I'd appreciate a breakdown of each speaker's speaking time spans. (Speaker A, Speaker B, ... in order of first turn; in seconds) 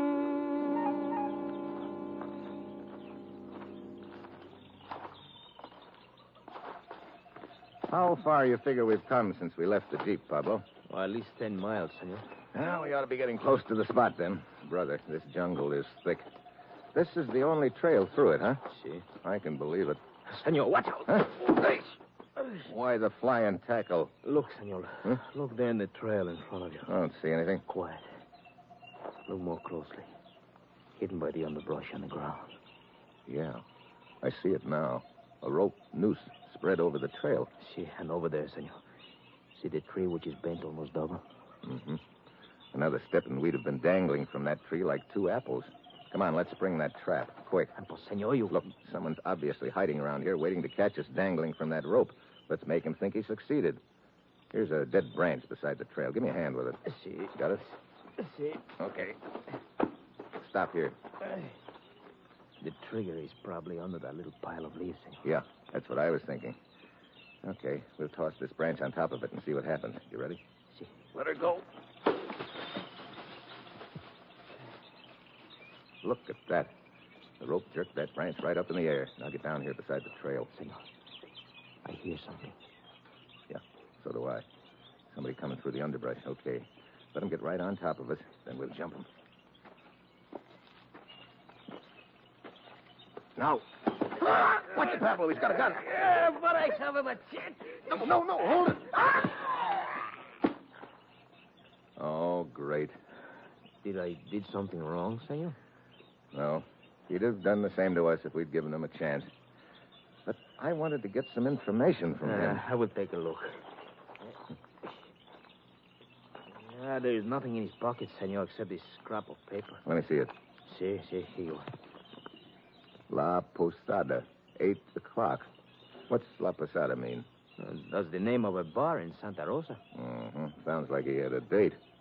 Speaker A: 7.9-10.7, 12.5-16.3, 16.9-18.6, 19.2-20.0, 21.1-21.7, 22.6-24.1, 26.9-27.6, 33.3-33.6, 34.2-37.5, 41.6-42.0, 42.7-47.7, 48.5-53.8, 54.5-56.8, 57.3-57.6, 58.8-59.2, 60.4-61.0, 65.2-66.6, 67.4-70.4, 76.0-76.7, 77.4-80.5, 83.5-84.4, 85.1-89.1, 93.4-96.1, 97.9-99.4, 102.0-102.9, 106.3-109.3, 110.2-112.6, 119.8-120.3, 123.1-125.5, 126.1-127.3, 129.9-131.8
Speaker B: 10.9-12.2, 18.7-19.1, 20.3-21.4, 24.2-26.9, 27.7-28.1, 29.3-30.1, 31.0-32.5, 37.6-38.8, 39.5-41.2, 47.7-48.6, 56.9-57.3, 62.6-65.2, 70.7-71.6, 80.5-80.8, 81.8-82.6, 96.1-97.6, 103.8-105.5, 112.2-113.6, 116.5-119.8, 120.7-121.7, 127.6-129.8